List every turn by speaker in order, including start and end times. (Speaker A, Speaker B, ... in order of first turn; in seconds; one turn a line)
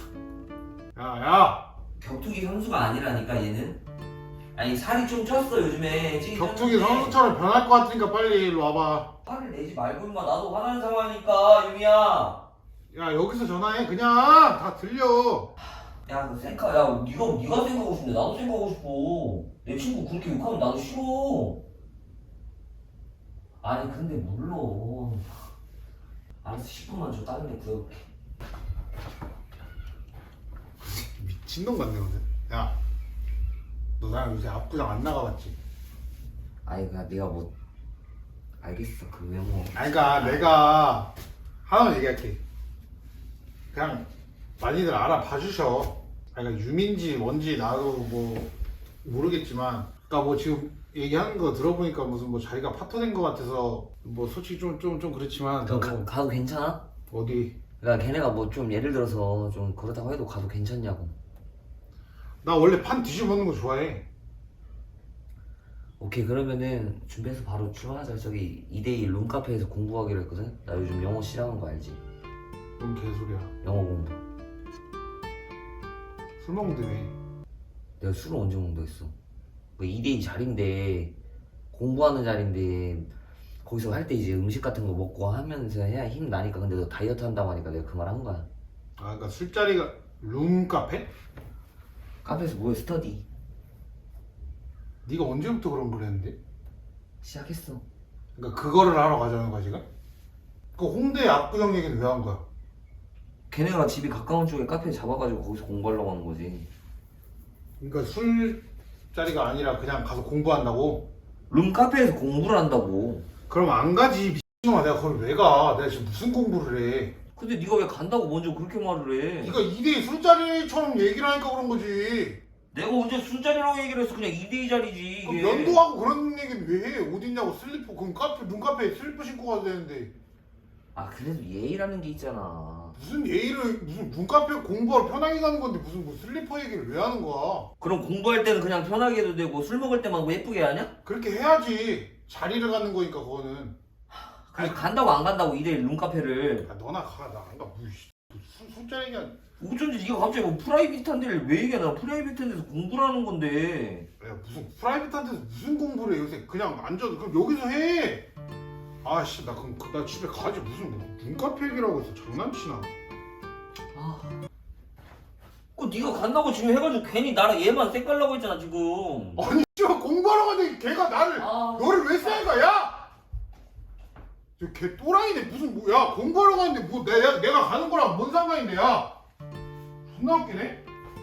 Speaker A: 0.9-1.7
Speaker B: 2.0-3.8
Speaker B: 4.5-7.2
Speaker A: 6.3-9.1
Speaker B: 9.2-12.4
Speaker A: 12.9-15.5
Speaker B: 16.0-21.6
Speaker B: 23.6-25.4
Speaker B: 26.4-28.1
Speaker A: 30.8-32.8
Speaker A: 34.0-35.6
Speaker B: 36.6-37.5
Speaker B: 38.6-40.6
Speaker A: 39.7-41.1
Speaker A: 41.6-42.4
Speaker A: 43.7-44.1
Speaker A: 44.6-48.5
Speaker A: 49.0-56.1
Speaker B: 55.6-56.9
Speaker A: 57.1-57.6
Speaker B: 57.8-61.1
Speaker A: 62.4-64.1
Speaker B: 66.0-72.0
Speaker A: 72.8-73.5
Speaker B: 73.6-74.2
Speaker A: 76.4-77.1
Speaker B: 78.0-79.1
Speaker B: 79.8-81.1
Speaker B: 81.7-83.1
Speaker B: 83.6-88.5
Speaker A: 89.0-91.1
Speaker B: 92.2-93.2
Speaker A: 95.0-96.4
Speaker B: 97.2-97.8
Speaker A: 98.4-99.9
Speaker A: 100.8-102.4
Speaker B: 103.5-106.7
Speaker A: 107.8-111.1
Speaker B: 111.5-113.3
Speaker A: 113.5-117.2
Speaker B: 117.4-119.6
Speaker A: 119.4-122.4
Speaker B: 122.7-125.8
Speaker A: 125.2-130.1
Speaker B: 130.9-133.0
Speaker A: 133.0-137.7
Speaker B: 137.8-140.9
Speaker A: 141.1-143.8
Speaker B: 144.3-146.7
Speaker A: 144.6-144.8
Speaker A: 146.6-149.4
Speaker B: 149.6-154.1
Speaker A: 154.2-158.3
Speaker A: 159.0-162.9
Speaker B: 163.9-164.3
Speaker B: 165.8-169.5
Speaker A: 169.4-173.1
Speaker B: 171.4-172.6
Speaker A: 174.6-179.2
Speaker A: 180.1-180.8